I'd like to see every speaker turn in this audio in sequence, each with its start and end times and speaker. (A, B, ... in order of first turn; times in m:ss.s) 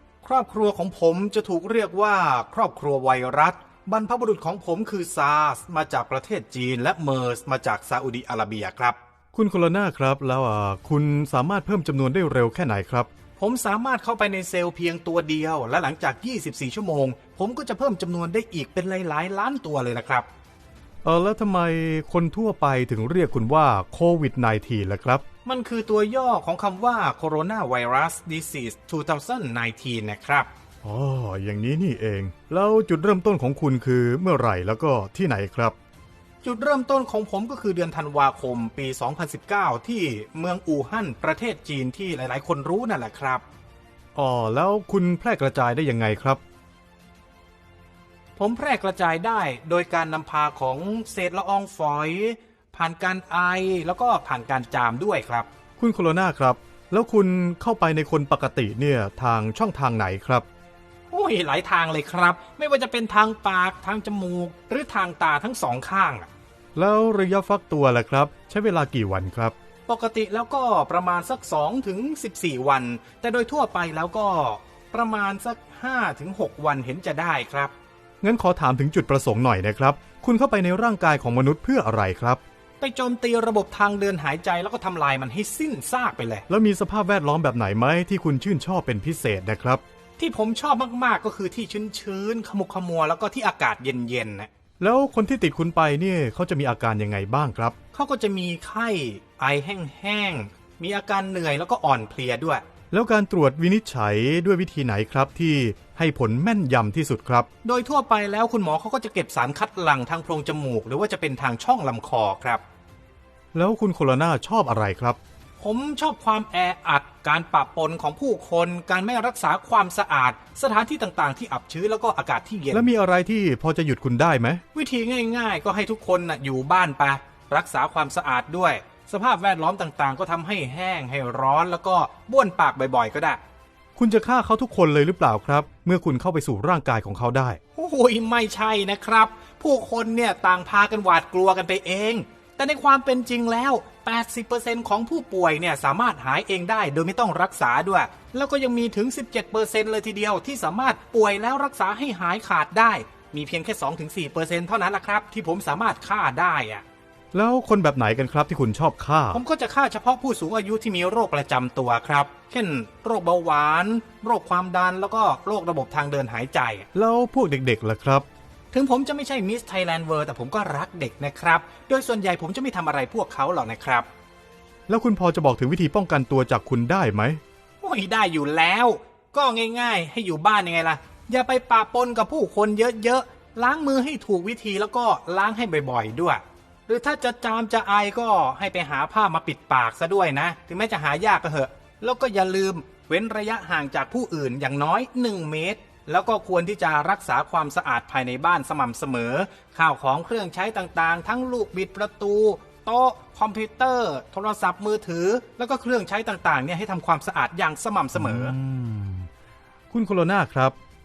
0:00.2-0:09.0 A
0:09.3-0:13.1 B
0:13.4-0:20.3 A
0:21.0-0:25.2 B
0:25.4-0:30.5 A
0:30.8-0:35.7 B
0:36.4-0:43.4 A
0:44.1-0:46.4 B
0:48.4-0:55.5 A
0:55.8-1:00.4 B
1:01.1-1:06.3 A
1:06.8-1:09.5 B
1:09.9-1:17.7 A
1:18.2-1:22.4 B
1:22.8-1:26.4 A
1:26.5-1:29.8 B
1:30.2-1:34.5 A
1:34.8-1:37.8 B
1:37.9-1:42.6 A
1:42.9-1:47.5 B
1:47.6-1:52.6 A
1:53.5-1:55.2 B
1:55.6-2:02.9 A
2:02.7-2:04.6 B
2:04.7-2:13.4 A
2:14.0-2:17.6 B
2:17.8-2:36.8 A
2:37.3-2:39.4 B
2:39.3-2:46.9 A
2:46.9-2:48.2 B
2:48.7-2:54.0 A
2:54.9-2:57.4 B
2:57.8-3:28.5 A
3:28.1-3:29.3 B
3:29.9-3:30.7 B